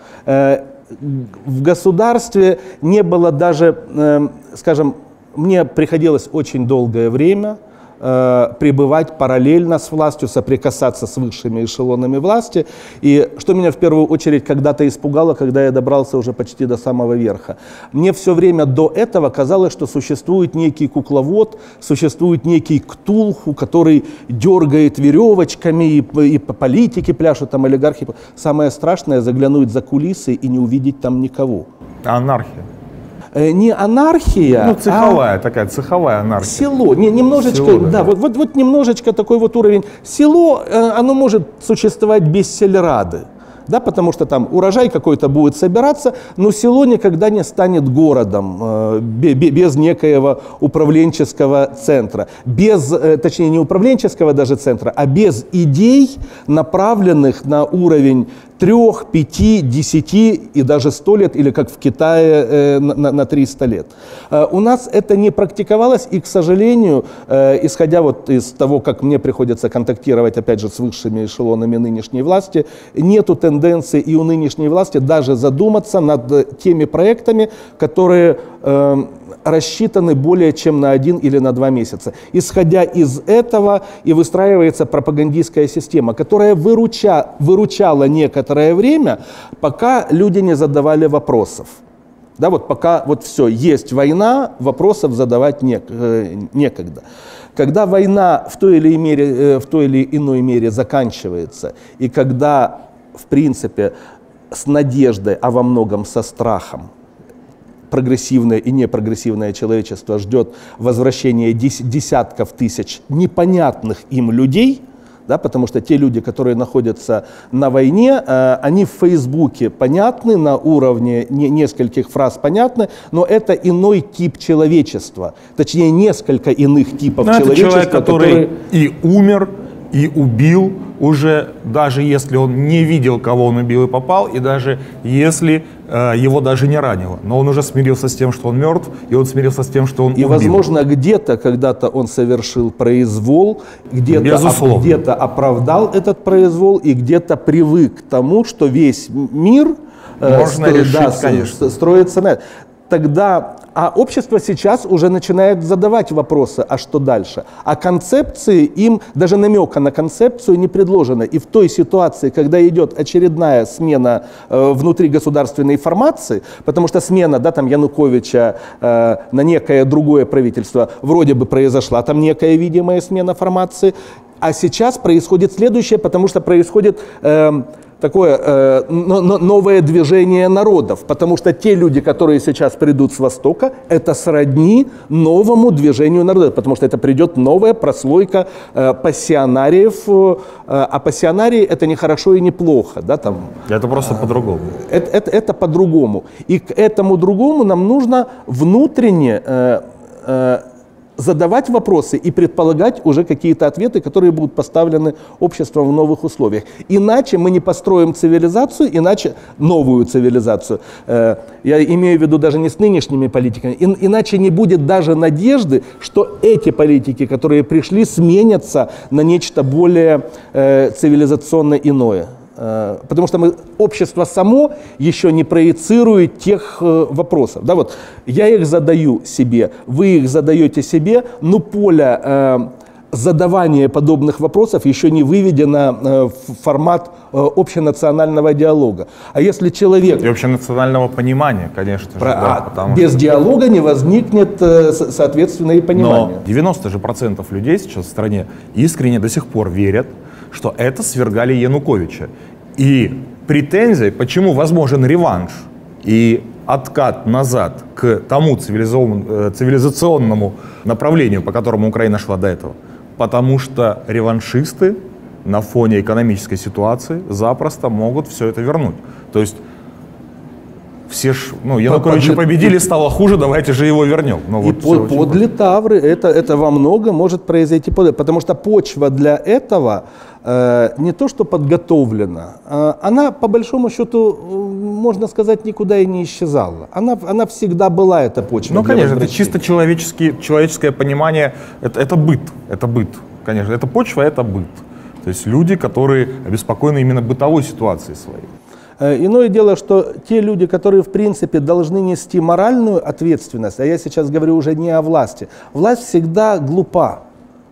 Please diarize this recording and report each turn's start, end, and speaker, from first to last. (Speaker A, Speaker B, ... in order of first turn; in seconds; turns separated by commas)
Speaker A: 0.3-31.7, Speaker B: 32.0-32.7, Speaker A: 33.3-35.2, Speaker B: 34.6-36.7, Speaker A: 36.4-91.8, Speaker B: 37.3-38.1, Speaker A: 92.4-97.0, Speaker A: 97.6-103.9, Speaker A: 104.5-106.9, Speaker A: 107.9-128.5, Speaker B: 127.2-140.6, Speaker A: 140.2-194.2, Speaker B: 144.1-145.0, Speaker B: 150.2-151.7, Speaker B: 193.7-194.8, Speaker A: 194.8-200.6, Speaker A: 201.2-240.3, Speaker B: 240.2-243.1, Speaker A: 242.2-246.4, Speaker B: 245.9-269.6, Speaker B: 271.1-275.4, Speaker A: 271.9-272.9, Speaker A: 274.6-289.6, Speaker B: 288.7-298.5, Speaker A: 299.0-307.2